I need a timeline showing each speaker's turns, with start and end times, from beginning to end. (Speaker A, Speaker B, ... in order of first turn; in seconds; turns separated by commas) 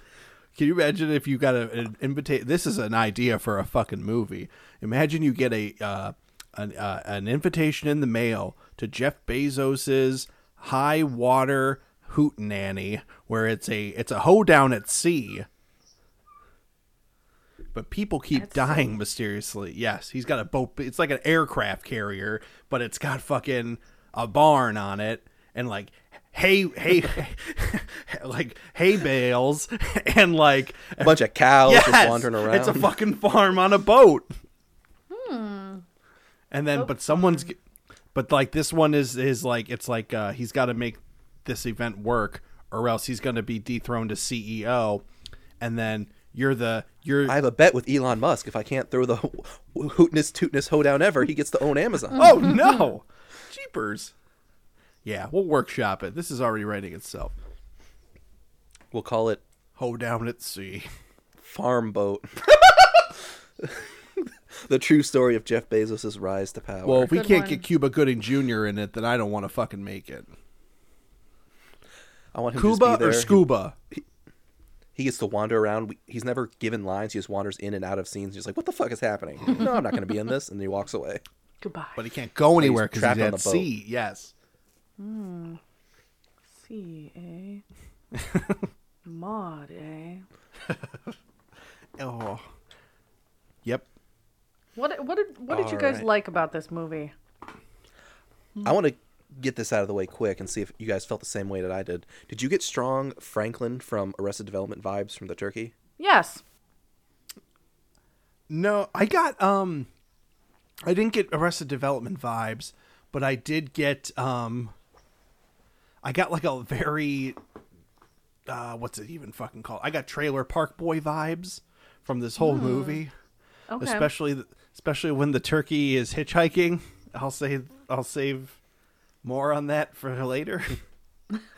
Speaker A: 0.6-15.5, Speaker A: 17.7-34.3, Speaker B: 18.4-18.9, Speaker C: 31.0-33.0, Speaker B: 35.1-35.9, Speaker A: 36.5-37.6, Speaker B: 36.8-37.5, Speaker A: 38.1-45.0, Speaker A: 45.6-47.4, Speaker C: 47.3-52.5, Speaker A: 52.1-54.1, Speaker A: 55.0-57.3, Speaker C: 58.9-59.4, Speaker A: 59.8-60.9, Speaker C: 61.4-62.6, Speaker C: 63.6-67.1, Speaker A: 66.8-70.3, Speaker B: 67.1-67.7, Speaker C: 72.3-74.0, Speaker A: 72.6-73.8, Speaker C: 75.0-81.2, Speaker B: 81.6-82.0, Speaker A: 82.0-84.3, Speaker C: 82.6-83.7, Speaker B: 85.0-85.6, Speaker B: 86.5-87.6, Speaker A: 88.2-88.7, Speaker B: 89.0-90.2, Speaker A: 90.7-91.1, Speaker A: 92.0-92.5, Speaker B: 94.8-97.1, Speaker C: 95.5-96.1, Speaker C: 98.6-105.7, Speaker B: 106.0-106.4, Speaker A: 108.5-109.9, Speaker A: 110.8-114.7, Speaker A: 116.0-117.4, Speaker A: 118.5-123.1, Speaker B: 122.4-123.0, Speaker B: 123.7-124.1, Speaker A: 123.8-128.6, Speaker A: 129.2-130.8